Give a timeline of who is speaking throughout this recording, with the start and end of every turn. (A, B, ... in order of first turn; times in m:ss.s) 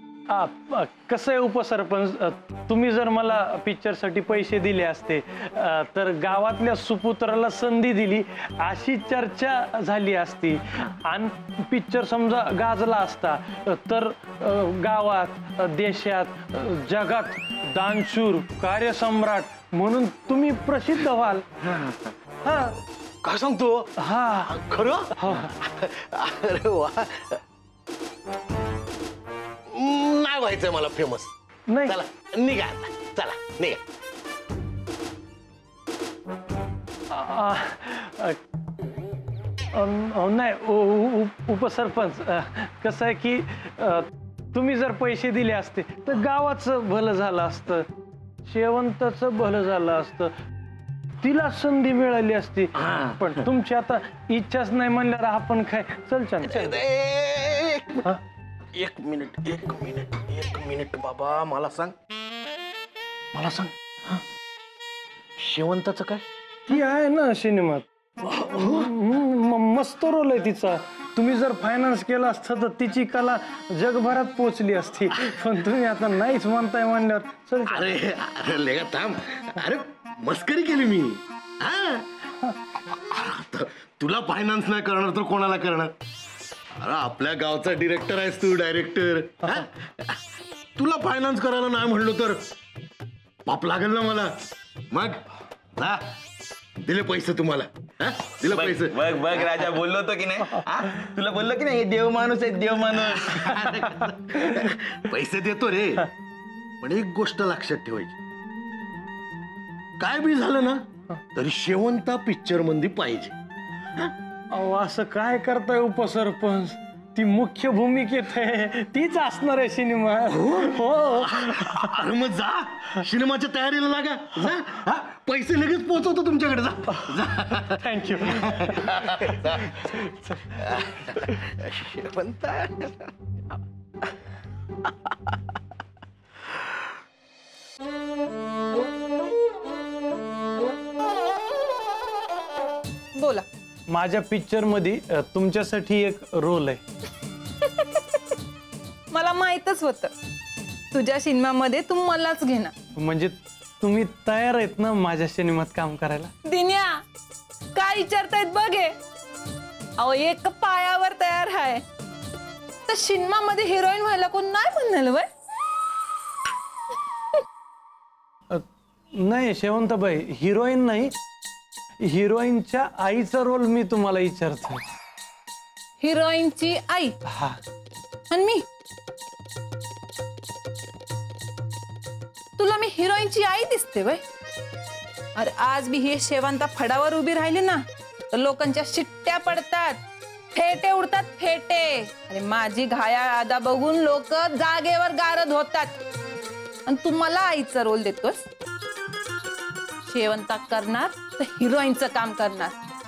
0:00.3-0:21.4 A
0:22.4-0:22.8 A
0:23.2-0:23.9 B
0:24.0-0:24.5 A
0:24.4-0:27.4 B
0:25.2-0:25.5 A
0:29.7-0:31.3 B
0:31.7-0:32.0 A
0:31.8-0:33.8 B
0:37.1-0:38.4 A
0:39.7-0:47.9 A
0:48.4-0:50.3 A
0:51.2-0:56.8 A
0:52.8-0:53.3 C
0:56.4-0:58.0 B
0:58.7-1:01.9 B
1:03.3-1:03.7 B
1:05.4-1:06.2 B
1:06.7-1:07.8 A
1:08.4-1:08.8 B
1:08.5-1:17.9 A
1:17.6-1:22.1 B
1:22.9-1:25.9 B
1:26.8-1:30.2 B
1:30.8-1:32.4 B
1:33.5-1:34.3 B
1:34.9-1:35.2 B
1:35.8-1:36.1 B
1:36.8-1:39.4 B
1:38.5-1:43.6 C
1:42.9-1:46.1 B
1:46.8-1:48.2 B
1:50.0-1:53.3 B
1:54.5-2:01.9 A
2:00.3-2:09.8 B
2:07.7-2:11.3 A
2:10.7-2:11.1 B
2:11.7-2:12.6 B
2:23.2-2:23.4 D
2:23.9-2:26.8 A
2:27.6-2:28.0 D
2:29.1-2:30.1 D
2:30.9-2:32.7 D
2:33.0-2:36.3 A
2:36.4-2:37.0 D
2:37.7-2:38.9 D
2:40.0-2:41.8 D
2:42.9-2:45.3 D
2:49.2-2:51.1 A
2:52.0-2:54.8 A
2:56.0-2:57.1 D
2:57.3-2:57.6 A
2:58.3-2:58.6 D
3:02.6-3:04.2 D
3:05.4-3:07.8 D
3:08.3-3:10.0 D
3:10.5-3:16.0 D
3:16.9-3:18.4 D
3:20.1-3:22.7 D